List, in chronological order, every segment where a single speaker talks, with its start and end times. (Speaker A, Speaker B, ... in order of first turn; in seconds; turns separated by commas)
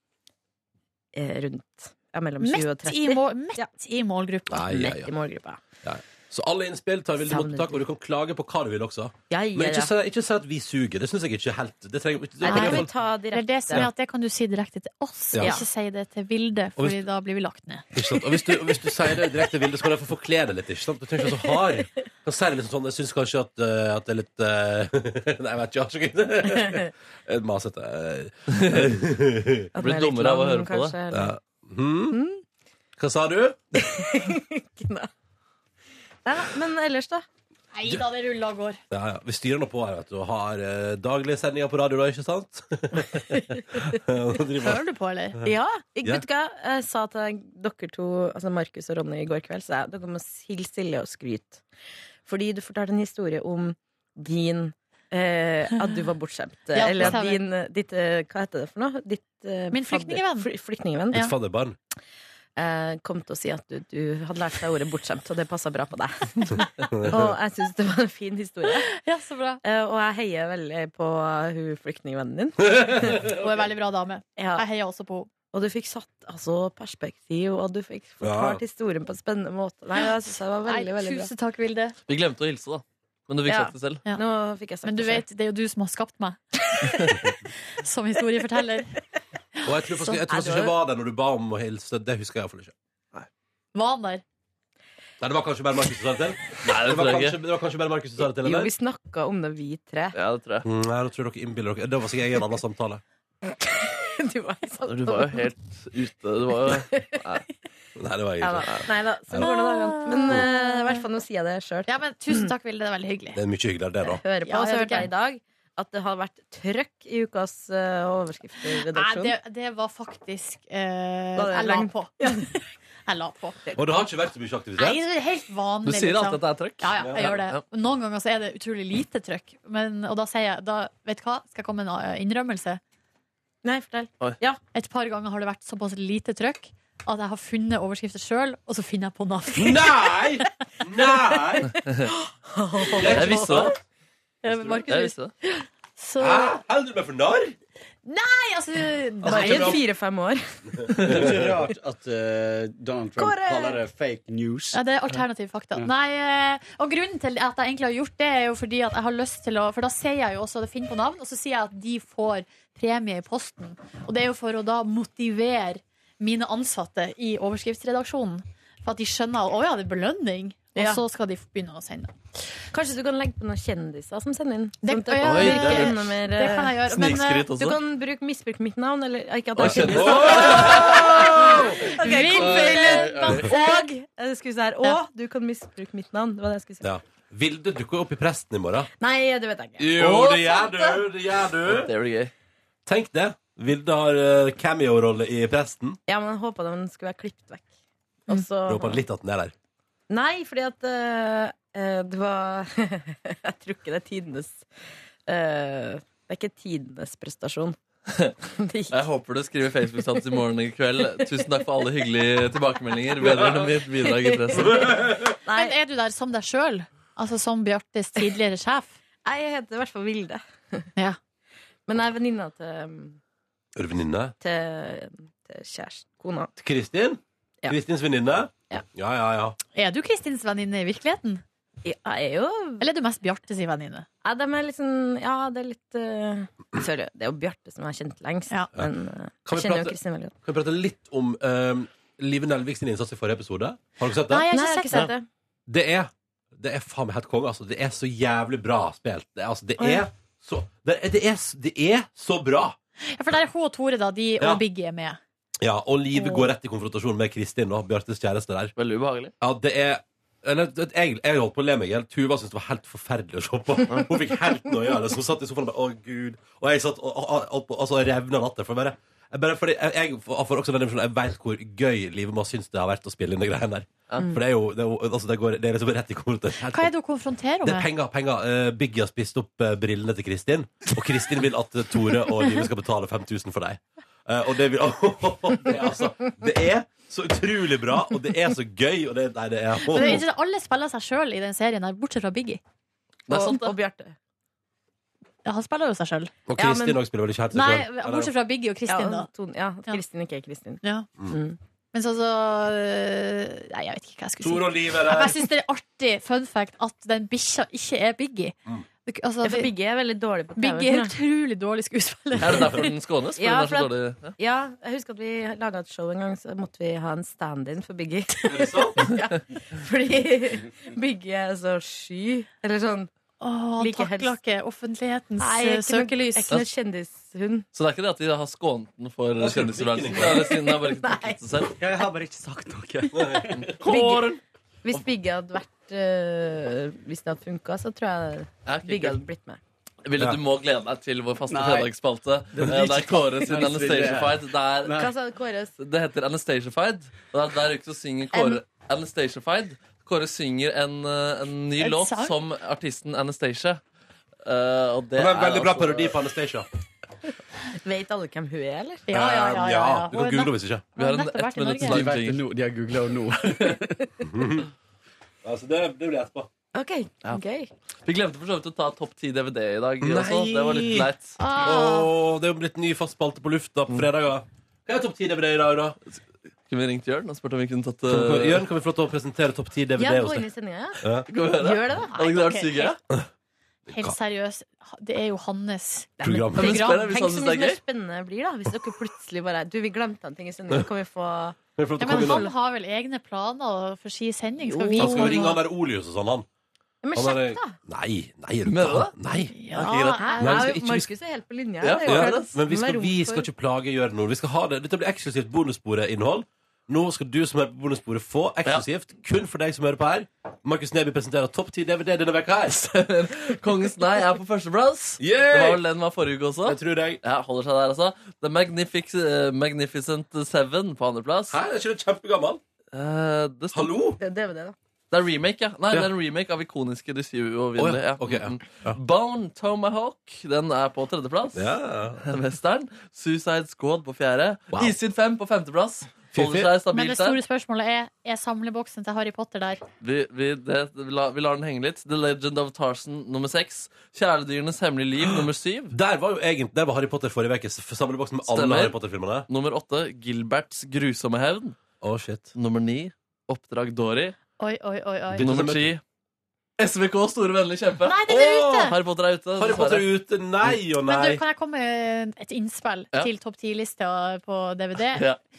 Speaker A: 1.1-3.7, Speaker B: 2.4-4.7, Speaker C: 4.5-5.1, Speaker A: 4.7-5.6, Speaker C: 5.8-12.9, Speaker A: 7.2-7.8, Speaker A: 9.3-9.9, Speaker A: 12.4-13.9, Speaker B: 12.4-18.3, Speaker C: 15.3-15.6, Speaker A: 15.4-15.7, Speaker C: 17.9-29.7, Speaker A: 26.5-26.9, Speaker D: 28.5-28.8, Speaker A: 29.8-31.4, Speaker D: 29.8-31.0, Speaker C: 31.1-32.2, Speaker A: 32.1-32.4, Speaker C: 33.0-33.8, Speaker A: 33.8-35.1, Speaker A: 36.2-37.2, Speaker B: 37.7-38.8, Speaker C: 38.9-44.8, Speaker A: 43.3-43.8, Speaker B: 44.6-45.4, Speaker A: 45.4-51.6, Speaker A: 52.2-61.3, Speaker B: 56.7-57.4, Speaker B: 59.7-60.5, Speaker C: 61.1-61.8, Speaker A: 62.6-68.9, Speaker C: 67.0-67.3, Speaker B: 68.9-69.6, Speaker A: 69.6-73.3, Speaker C: 72.7-73.3, Speaker B: 73.2-75.3, Speaker A: 74.4-74.7, Speaker A: 75.5-81.3, Speaker C: 78.2-78.6, Speaker B: 80.7-82.0, Speaker D: 82.1-84.0, Speaker A: 83.5-85.2, Speaker B: 84.8-87.2, Speaker B: 87.7-88.9, Speaker B: 89.6-90.2, Speaker C: 89.7-92.8, Speaker A: 90.3-90.7, Speaker B: 93.8-94.2, Speaker C: 95.2-98.7, Speaker D: 96.6-97.4, Speaker A: 98.4-100.2, Speaker D: 100.2-100.7, Speaker C: 100.6-103.0, Speaker A: 103.6-105.5, Speaker D: 104.9-107.5, Speaker A: 106.7-107.2, Speaker C: 108.0-109.5, Speaker A: 108.4-112.5, Speaker B: 109.3-111.0, Speaker B: 111.9-113.4, Speaker C: 113.3-114.2, Speaker A: 114.0-119.3, Speaker B: 114.5-115.1, Speaker B: 118.7-122.5, Speaker A: 121.4-122.5, Speaker B: 123.1-123.6, Speaker C: 123.8-125.0, Speaker B: 124.8-132.8, Speaker D: 125.8-127.6, Speaker C: 127.0-127.3, Speaker A: 133.6-134.6, Speaker B: 134.7-139.9, Speaker C: 139.5-141.7, Speaker A: 142.1-143.7, Speaker C: 142.9-143.8, Speaker D: 143.0-143.7, Speaker B: 144.4-146.6, Speaker D: 144.6-145.3, Speaker C: 146.2-147.6, Speaker B: 148.1-149.8, Speaker A: 149.2-151.0, Speaker C: 149.2-149.8, Speaker E: 151.0-154.8, Speaker C: 151.0-151.6, Speaker A: 153.2-153.8, Speaker B: 154.7-172.1, Speaker A: 170.8-171.0, Speaker A: 172.7-176.8, Speaker B: 174.8-177.5, Speaker D: 175.2-176.1, Speaker D: 176.9-177.8, Speaker A: 177.5-186.8, Speaker D: 179.6-181.0, Speaker C: 179.6-181.8, Speaker B: 180.7-183.9, Speaker E: 182.3-183.4, Speaker C: 186.8-188.9, Speaker A: 189.0-190.0, Speaker C: 189.8-191.9, Speaker D: 189.9-190.7, Speaker D: 191.7-192.3, Speaker C: 192.9-196.0, Speaker A: 196.1-197.7, Speaker A: 198.3-199.0, Speaker C: 198.7-199.5, Speaker A: 200.1-204.7, Speaker A: 205.3-207.8, Speaker A: 208.6-209.1, Speaker D: 208.9-214.7, Speaker C: 213.2-213.7, Speaker A: 214.1-214.6, Speaker C: 214.5-215.4, Speaker A: 215.4-215.8, Speaker B: 215.5-219.0, Speaker A: 219.2-220.9, Speaker A: 221.9-223.2, Speaker C: 223.8-224.3, Speaker A: 224.4-226.5, Speaker C: 226.6-229.6, Speaker B: 229.8-231.4, Speaker A: 231.8-232.8, Speaker B: 232.8-234.1, Speaker A: 234.2-240.3, Speaker C: 239.4-245.1, Speaker B: 244.3-245.1, Speaker A: 244.5-245.3, Speaker C: 245.7-252.8, Speaker A: 249.8-250.0, Speaker B: 253.1-255.2, Speaker C: 255.6-258.7, Speaker D: 258.8-259.3, Speaker C: 259.4-276.9, Speaker B: 276.7-277.9, Speaker C: 277.6-290.2, Speaker B: 289.8-292.6, Speaker D: 293.3-293.7, Speaker A: 293.3-294.1, Speaker B: 295.4-296.3, Speaker C: 296.5-298.3, Speaker A: 296.6-297.0, Speaker B: 297.5-299.3, Speaker A: 298.9-301.6, Speaker B: 300.8-301.1, Speaker B: 301.9-309.7, Speaker C: 304.4-305.4, Speaker A: 309.4-311.1, Speaker B: 310.6-312.9, Speaker D: 312.4-314.4, Speaker A: 313.4-323.1, Speaker C: 318.5-319.1, Speaker B: 323.4-326.6, Speaker A: 323.8-324.4, Speaker A: 325.4-327.7, Speaker D: 327.7-331.7, Speaker C: 329.4-330.6, Speaker A: 330.5-331.7, Speaker E: 331.8-333.7, Speaker C: 333.1-333.7, Speaker D: 333.6-334.4, Speaker A: 333.8-339.6, Speaker D: 338.7-339.2, Speaker D: 340.1-345.1, Speaker E: 341.5-341.9, Speaker E: 342.6-345.1, Speaker A: 344.9-345.7, Speaker D: 345.8-353.8, Speaker A: 348.3-348.6, Speaker B: 351.8-352.4, Speaker D: 354.4-356.2, Speaker C: 355.1-356.7, Speaker A: 357.8-359.1, Speaker B: 359.1-362.0, Speaker C: 359.1-360.9, Speaker D: 361.0-362.4, Speaker E: 361.8-364.1, Speaker D: 363.5-363.8, Speaker C: 364.3-364.7, Speaker C: 365.4-366.5, Speaker A: 366.7-367.7, Speaker D: 368.1-371.4, Speaker C: 370.0-371.1, Speaker B: 371.4-372.1, Speaker C: 371.6-376.0, Speaker D: 376.7-378.6, Speaker C: 378.1-380.5, Speaker A: 380.0-382.1, Speaker C: 381.0-381.3, Speaker D: 381.3-383.0, Speaker B: 382.1-383.0, Speaker C: 383.9-384.1, Speaker B: 383.9-387.1, Speaker C: 386.2-386.9, Speaker D: 386.6-387.8, Speaker A: 386.6-392.5, Speaker C: 391.8-392.5, Speaker B: 392.0-395.6, Speaker A: 394.7-395.6, Speaker C: 395.0-396.5, Speaker A: 397.0-397.8, Speaker C: 397.1-399.5, Speaker D: 398.7-399.1, Speaker B: 399.6-400.7, Speaker D: 399.7-400.2, Speaker A: 400.2-403.5, Speaker C: 400.4-401.1, Speaker D: 401.8-402.6, Speaker C: 402.0-412.8, Speaker D: 412.8-421.6, Speaker C: 415.2-415.8, Speaker C: 416.6-417.2, Speaker C: 421.5-422.6, Speaker D: 422.9-423.9, Speaker C: 423.7-424.2, Speaker A: 424.2-424.8, Speaker D: 425.1-437.4, Speaker C: 427.8-429.0, Speaker C: 431.5-432.3, Speaker C: 436.3-436.7, Speaker B: 436.9-439.8, Speaker D: 440.0-445.9, Speaker C: 445.9-449.5, Speaker D: 448.5-449.0, Speaker D: 449.5-451.8, Speaker C: 452.0-452.5, Speaker D: 452.6-454.4, Speaker B: 454.6-455.4, Speaker C: 455.3-456.0, Speaker D: 455.4-456.0, Speaker D: 456.8-458.3, Speaker B: 458.0-459.0, Speaker C: 458.3-458.9, Speaker D: 458.8-460.1, Speaker C: 459.6-461.4, Speaker B: 461.1-465.3, Speaker D: 465.1-465.4